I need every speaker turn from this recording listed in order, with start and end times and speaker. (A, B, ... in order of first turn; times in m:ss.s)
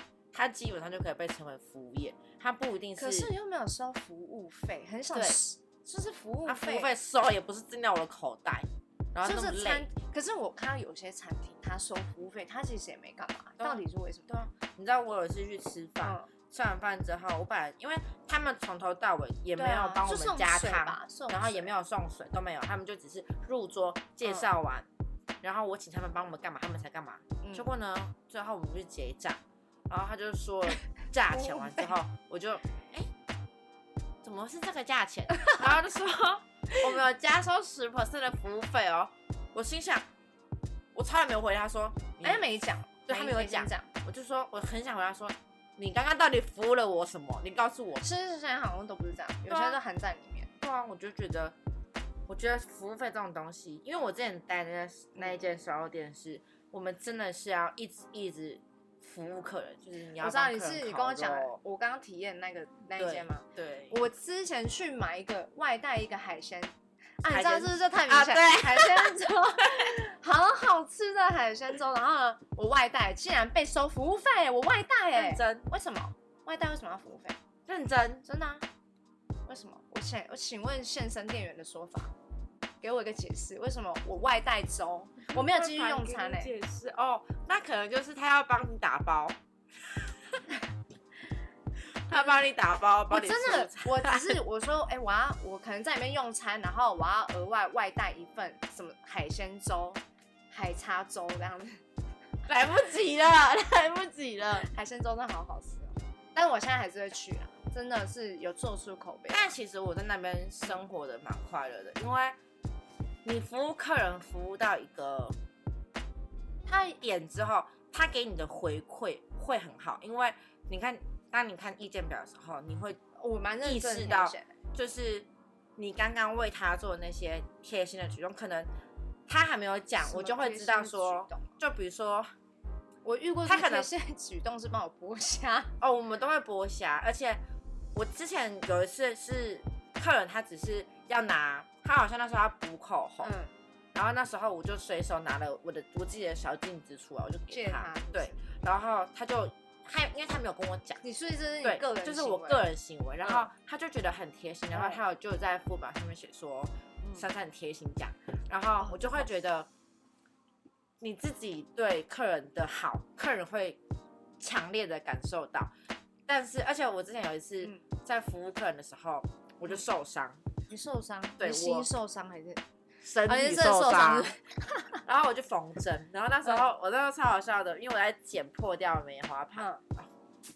0:00.3-0:03.3 A
0:03.0-0:06.9 B
0:05.1-0:05.4 A
0:06.4-0:09.9 A
0:09.2-0:14.3 B
0:13.6-0:24.9 A
0:16.0-0:16.3 B
0:19.6-0:21.7 B
0:25.4-0:33.1 A
0:27.4-0:27.7 B
0:31.3-0:31.9 B
0:34.2-0:40.0 A
0:40.9-0:42.4 A
0:42.2-0:43.9 B
0:43.1-0:48.1 A
0:48.0-0:50.5 B
0:49.5-0:49.8 A
0:50.6-0:51.6 A
0:52.3-1:01.6 A
1:00.2-1:17.4 B
1:03.0-1:04.0 A
1:07.3-1:09.9 A
1:15.1-1:15.7 A
1:17.7-1:18.2 A
1:18.2-1:18.6 B
1:19.5-1:22.1 B
1:22.8-1:26.5 B
1:25.3-1:29.4 A
1:29.9-1:30.4 A
1:32.1-1:34.4 A
1:33.1-1:40.0 B
1:40.5-1:41.8 B
1:42.4-1:44.7 A
1:44.6-1:49.5 B
1:49.3-1:52.4 A
1:53.2-1:55.4 A
1:56.6-1:57.0 B
1:57.0-2:03.0 A
2:03.2-2:04.5 B
2:03.6-2:08.7 A
2:09.3-2:12.3 A
2:10.0-2:11.6 B
2:13.0-2:15.7 B
2:13.4-2:13.9 A
2:15.8-2:17.4 A
2:17.9-2:23.3 A
2:23.2-2:23.5 B
2:23.9-2:31.0 A
2:27.5-2:28.4 B
2:31.0-2:32.6 B
2:31.6-2:39.7 A
2:33.2-2:33.5 B
2:34.7-2:35.0 B
2:37.0-2:37.2 B
2:38.8-2:39.3 B
2:41.0-2:43.8 A
2:44.4-2:45.7 A
2:46.3-2:50.4 A
2:50.7-2:52.6 B
2:51.4-2:51.9 A
2:53.0-2:54.3 A
2:53.2-2:55.0 B
2:55.0-3:00.1 A
2:59.6-2:59.8 B